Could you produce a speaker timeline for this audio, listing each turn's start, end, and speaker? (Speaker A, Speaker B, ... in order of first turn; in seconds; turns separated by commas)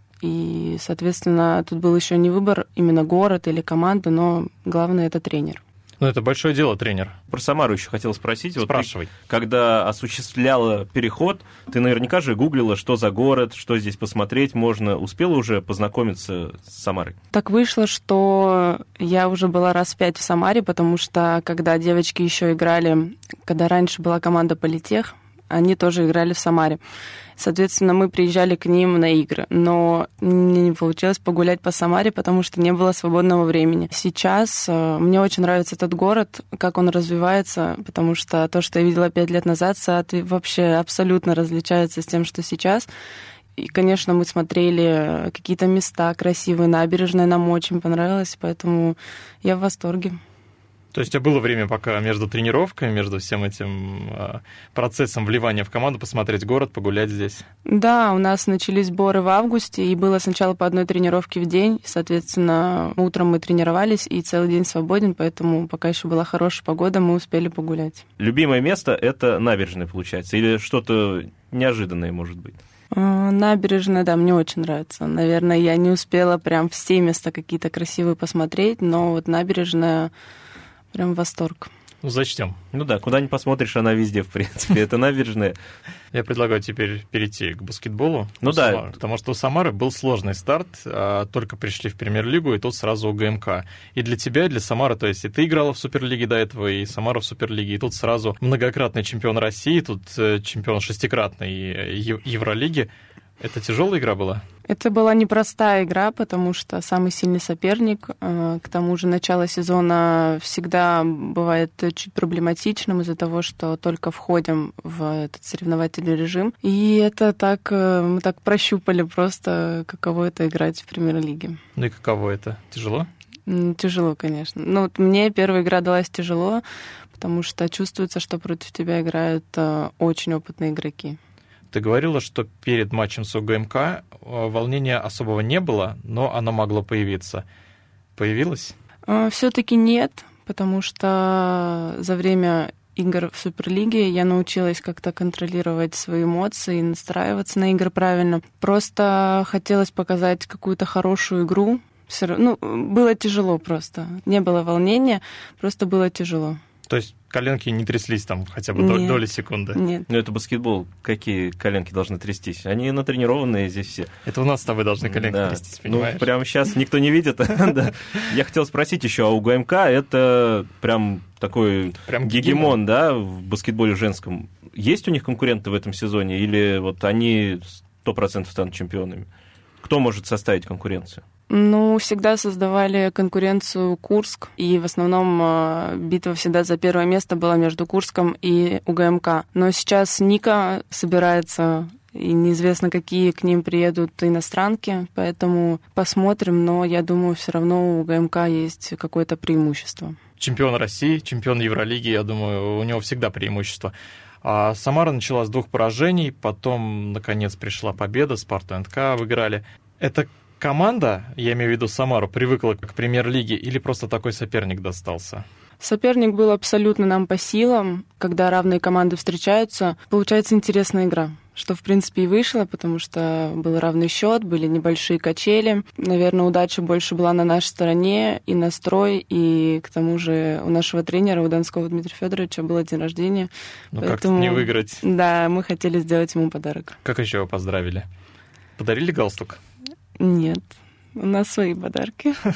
Speaker A: 0.2-5.6, Speaker B: 6.0-7.2, Speaker C: 7.3-17.2, Speaker B: 8.6-9.1, Speaker A: 17.3-26.8, Speaker A: 27.4-42.9, Speaker A: 43.6-50.2, Speaker B: 50.9-57.4, Speaker A: 57.7-68.0, Speaker C: 68.2-72.6, Speaker A: 72.9-80.1, Speaker A: 80.9-81.7, Speaker B: 82.0-82.6, Speaker C: 82.7-85.6, Speaker B: 86.1-102.9, Speaker C: 88.4-88.8, Speaker B: 103.4-104.4, Speaker A: 104.7-121.6, Speaker B: 121.8-123.1, Speaker A: 123.5-126.6, Speaker A: 127.2-131.2, Speaker B: 131.7-137.4, Speaker B: 138.2-138.8, Speaker A: 139.1-156.6, Speaker B: 156.9-159.8, Speaker A: 158.8-160.1, Speaker C: 160.1-164.1, Speaker B: 164.2-166.3, Speaker C: 165.0-179.3, Speaker B: 172.1-172.8, Speaker C: 179.8-181.2, Speaker A: 181.5-200.2, Speaker B: 200.4-215.4, Speaker A: 215.8-237.0, Speaker B: 233.9-235.0, Speaker B: 237.0-238.1, Speaker B: 238.8-239.6, Speaker A: 240.2-242.4